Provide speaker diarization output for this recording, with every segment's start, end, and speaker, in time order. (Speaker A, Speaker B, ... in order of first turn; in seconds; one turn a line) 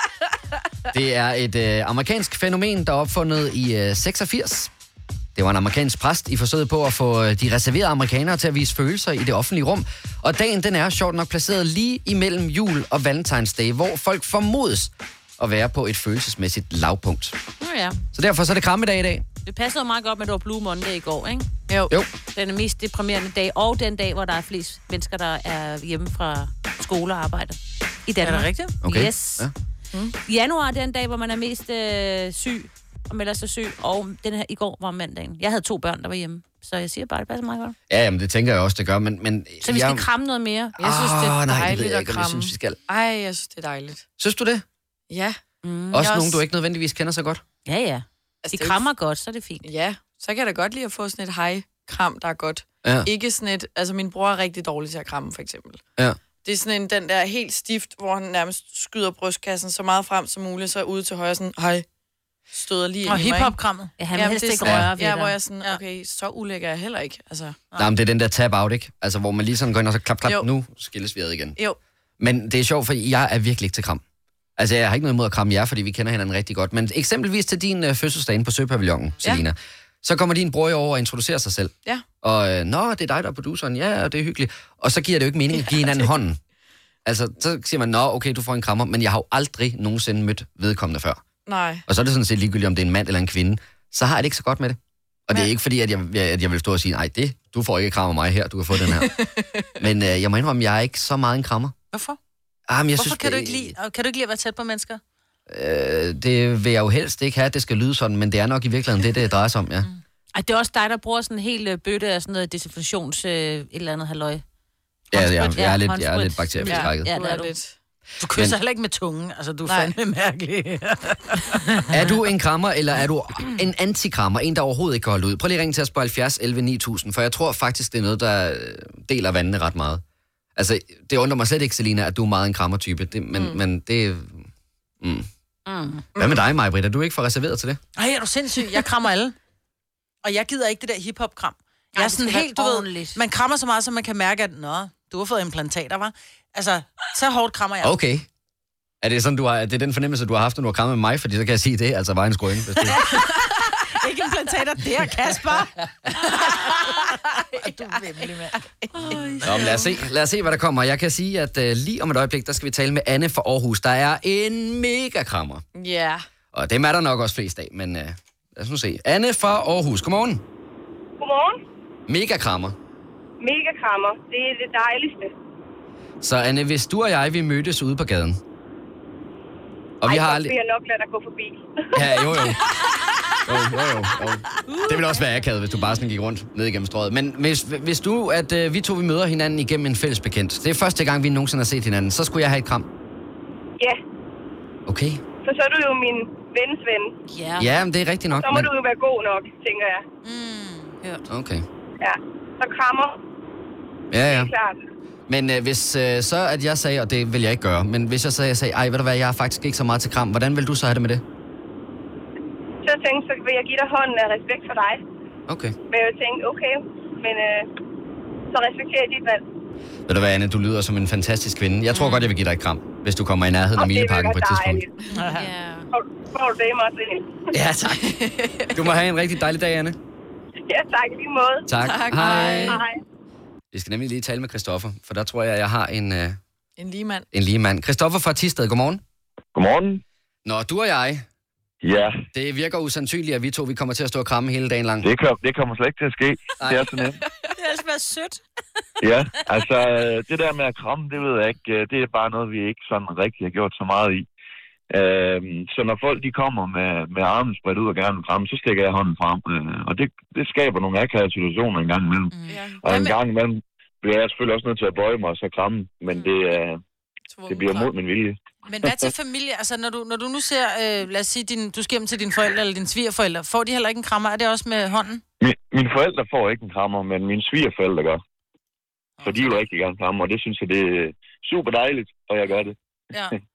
Speaker A: 0.9-4.7
Speaker A: 5.3-17.4
Speaker B: 17.6-18.0
Speaker A: 18.1-19.2
Speaker B: 19.4-21.5
Speaker B: 22.3-29.5
Speaker C: 28.2-28.7
Speaker A: 28.8-29.5
Speaker B: 30.2-37.7
Speaker A: 37.9-40.0
Speaker B: 39.6-40.8
Speaker D: 40.8-44.0
Speaker A: 40.8-42.8
Speaker A: 44.2-44.6
Speaker D: 45.1-45.4
Speaker B: 45.6-46.2
Speaker A: 45.9-47.4
Speaker B: 47.6-49.7
Speaker D: 48.4-48.9
Speaker D: 49.6-55.8
Speaker A: 52.8-53.1
Speaker D: 56.4-61.8
Speaker D: 62.5-63.5
Speaker C: 63.0-63.9
Speaker B: 64.0-65.4
Speaker D: 64.1-67.6
Speaker A: 64.6-64.9
Speaker A: 67.8-71.6
Speaker A: 72.2-74.0
Speaker A: 74.6-86.4
Speaker A: 87.0-91.2
Speaker D: 91.5-91.8
Speaker A: 91.9-99.1
Speaker D: 98.9-99.7
Speaker A: 99.8-101.7
Speaker C: 101.9-102.2
Speaker A: 102.7-103.7
Speaker C: 103.0-105.0
Speaker A: 105.5-109.9
Speaker B: 110.3-114.4
Speaker A: 115.1-117.1
Speaker B: 115.1-117.5
Speaker D: 116.6-117.7
Speaker C: 118.2-121.6
Speaker D: 119.7-119.9
Speaker A: 121.9-130.0
Speaker A: 130.6-134.5
Speaker D: 133.3-133.6
Speaker A: 135.0-135.3
Speaker B: 135.7-136.1
Speaker D: 136.2-136.4
Speaker A: 136.2-137.8
Speaker C: 137.9-139.3
Speaker C: 140.2-148.0
Speaker B: 141.9-143.2
Speaker A: 147.8-148.2
Speaker A: 149.0-153.0
Speaker C: 152.8-155.7
Speaker D: 156.2-157.0
Speaker C: 156.4-159.6
Speaker D: 158.9-159.9
Speaker A: 159.4-165.6
Speaker D: 165.8-166.2
Speaker A: 166.5-170.4
Speaker E: 171.2-171.6
Speaker A: 172.1-172.7
Speaker E: 173.4-175.3
Speaker A: 176.2-178.4
Speaker A: 180.0-180.5
Speaker E: 180.0-182.1
Speaker A: 181.9-182.6
Speaker A: 183.4-192.9
Speaker B: 184.7-185.4
Speaker A: 194.9-195.2
Speaker E: 195.4-197.1
Speaker B: 197.3-197.7
Speaker A: 197.6-198.7
Speaker E: 198.3-200.0
Speaker C: 200.2-201.0
Speaker A: 201.3-201.7
Speaker E: 202.0-203.2
Speaker A: 204.1-204.5
Speaker E: 204.2-204.8
Speaker A: 205.3-211.2
Speaker E: 212.8-215.0
Speaker A: 215.5-215.7
Speaker E: 215.9-217.7
Speaker E: 218.5-219.4
Speaker A: 220.1-224.8
Speaker B: 221.9-222.3
Speaker E: 223.8-224.9
Speaker C: 225.1-225.5
Speaker B: 225.3-225.9
Speaker E: 225.9-227.3
Speaker A: 227.5-228.1
Speaker D: 227.9-228.9
Speaker A: 228.7-230.0
Speaker E: 230.7-231.7
Speaker A: 231.7-232.8
Speaker D: 231.8-232.8
Speaker E: 232.6-233.0
Speaker A: 233.7-236.4
Speaker D: 236.8-237.2
Speaker A: 237.3-239.0
Speaker F: 239.5-240.0
Speaker A: 240.4-241.2
Speaker F: 241.8-242.2
Speaker A: 242.3-245.1
Speaker F: 245.0-247.2
Speaker A: 246.6-246.9
Speaker B: 247.6-248.4
Speaker F: 249.0-254.2
Speaker F: 254.9-266.8
Speaker C: 262.3-263.1
Speaker D: 262.5-262.8
Speaker D: 267.3-267.9
Speaker F: 267.5-269.1
Speaker C: 268.6-275.2
Speaker F: 275.4-278.2
Speaker C: 279.2-279.6
Speaker F: 279.2-282.7